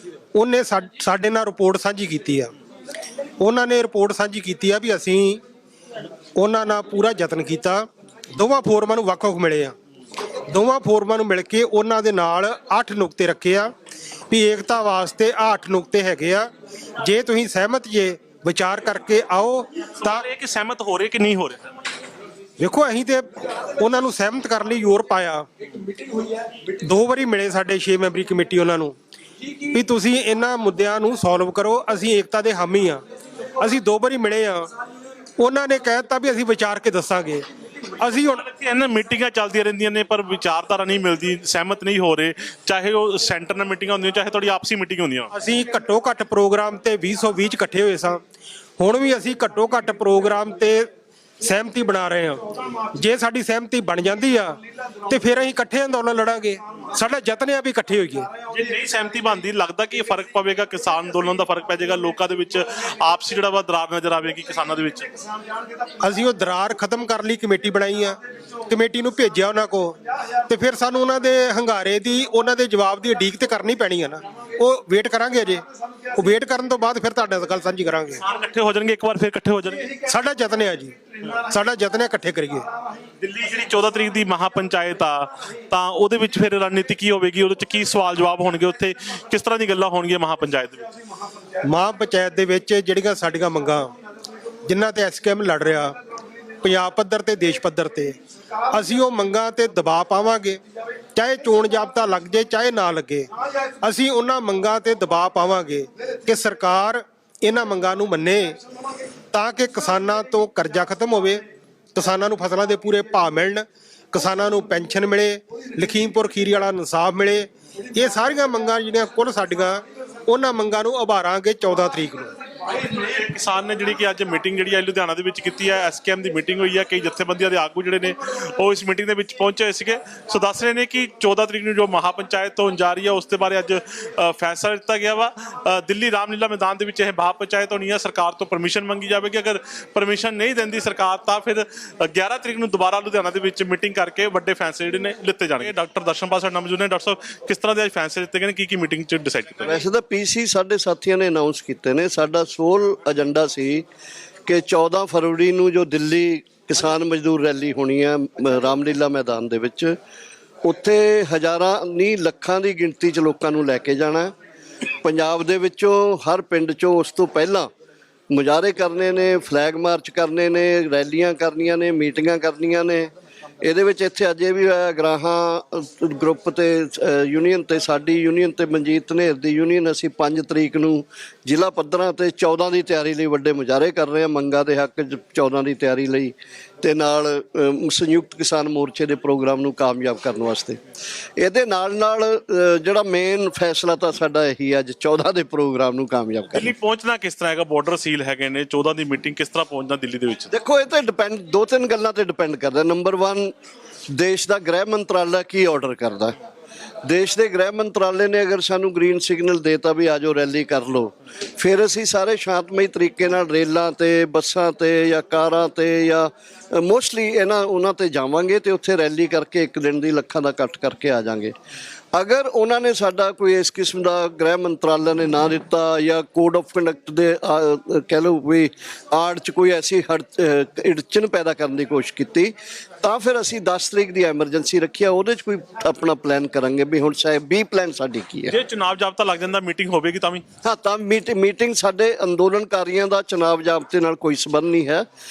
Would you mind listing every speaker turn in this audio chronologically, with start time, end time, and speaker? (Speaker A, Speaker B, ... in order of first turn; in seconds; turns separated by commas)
Speaker A: 0.3-2.5, Speaker A: 3.4-5.4, Speaker A: 6.4-9.7, Speaker A: 10.5-13.7, Speaker A: 14.3-16.5, Speaker A: 17.0-20.2, Speaker B: 20.0-21.7, Speaker A: 22.6-25.5, Speaker A: 26.4-28.9, Speaker A: 29.6-33.0, Speaker A: 33.6-34.7, Speaker A: 35.4-37.4, Speaker A: 38.0-38.4, Speaker B: 38.3-45.3, Speaker A: 45.3-48.2, Speaker A: 48.8-50.9, Speaker A: 51.4-58.3, Speaker B: 58.5-65.1, Speaker A: 66.0-78.2, Speaker B: 78.2-79.9, Speaker A: 80.0-82.7, Speaker B: 83.2-90.9, Speaker A: 91.7-93.9, Speaker A: 94.7-95.9, Speaker A: 96.6-98.1, Speaker A: 98.7-100.6, Speaker A: 101.1-108.6, Speaker A: 109.3-111.4, Speaker A: 111.9-122.3, Speaker B: 122.6-149.8, Speaker C: 149.6-153.8, Speaker C: 154.4-159.9, Speaker C: 160.6-164.3, Speaker C: 165.0-167.7, Speaker C: 168.3-173.1, Speaker C: 173.6-190.8, Speaker C: 191.4-196.7, Speaker B: 196.5-200.5, Speaker C: 200.5-203.5, Speaker C: 204.1-206.3, Speaker C: 207.0-221.5, Speaker C: 222.1-238.5, Speaker B: 238.5-240.4, Speaker C: 240.6-245.1